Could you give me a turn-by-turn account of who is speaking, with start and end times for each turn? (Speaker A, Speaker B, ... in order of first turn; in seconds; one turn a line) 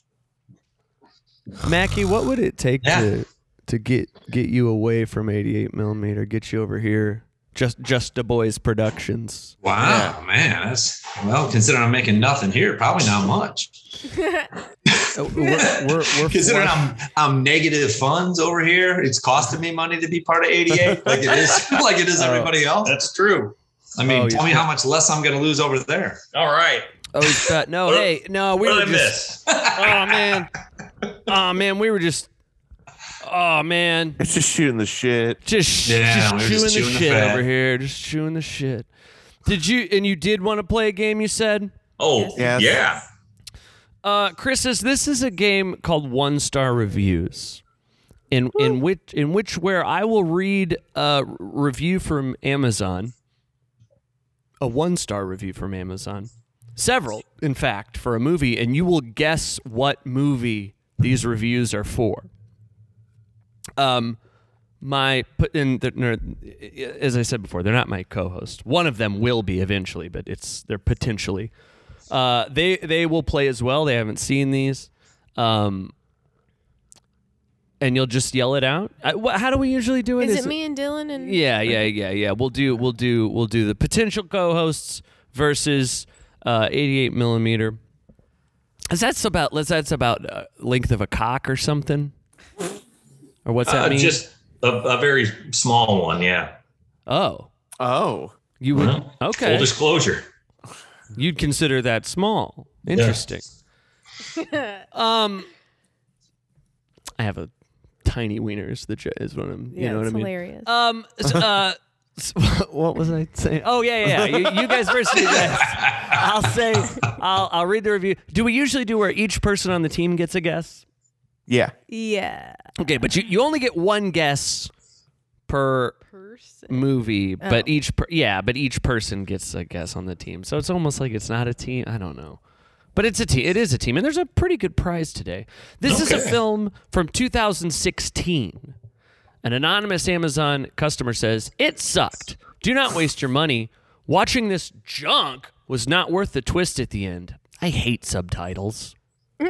Speaker A: 1.6-9.6
Speaker B: 2.8-3.1
Speaker B: 9.6-13.7
Speaker C: 9.8-10.2
Speaker B: 14.9-22.9
Speaker A: 15.1-16.9
Speaker C: 20.7-21.4
Speaker A: 22.2-22.6
Speaker D: 22.8-23.6
Speaker B: 24.0-26.2
Speaker A: 24.0-24.7
Speaker D: 26.3-26.9
Speaker A: 27.1-30.5
Speaker D: 28.6-29.7
Speaker B: 29.5-29.9
Speaker A: 31.3-32.3
Speaker A: 33.2-34.2
Speaker C: 34.2-35.4
Speaker A: 35.4-38.9
Speaker B: 35.9-37.5
Speaker A: 39.5-41.7
Speaker D: 42.0-43.0
Speaker E: 42.1-42.8
Speaker C: 42.4-42.7
Speaker A: 44.0-47.6
Speaker A: 48.3-53.1
Speaker A: 54.6-62.3
Speaker A: 63.8-64.2
Speaker A: 64.8-71.5
Speaker A: 72.1-75.9
Speaker A: 77.8-80.6
Speaker E: 80.2-81.9
Speaker A: 81.2-87.8
Speaker A: 88.9-92.1
Speaker A: 93.5-94.2
Speaker D: 93.7-96.5
Speaker A: 97.1-97.5
Speaker C: 97.8-98.3
Speaker A: 98.6-99.7
Speaker D: 98.7-100.2
Speaker A: 101.2-103.5
Speaker D: 102.9-103.2
Speaker A: 104.9-105.5
Speaker A: 107.2-107.5
Speaker A: 108.0-120.8
Speaker E: 109.7-110.7
Speaker C: 114.1-114.8
Speaker C: 121.5-121.7
Speaker E: 121.9-122.6
Speaker A: 122.8-124.7
Speaker A: 125.5-126.0
Speaker E: 126.1-126.9
Speaker A: 126.7-132.4
Speaker E: 127.4-127.7
Speaker A: 132.9-138.8
Speaker D: 135.8-136.4
Speaker A: 139.4-148.9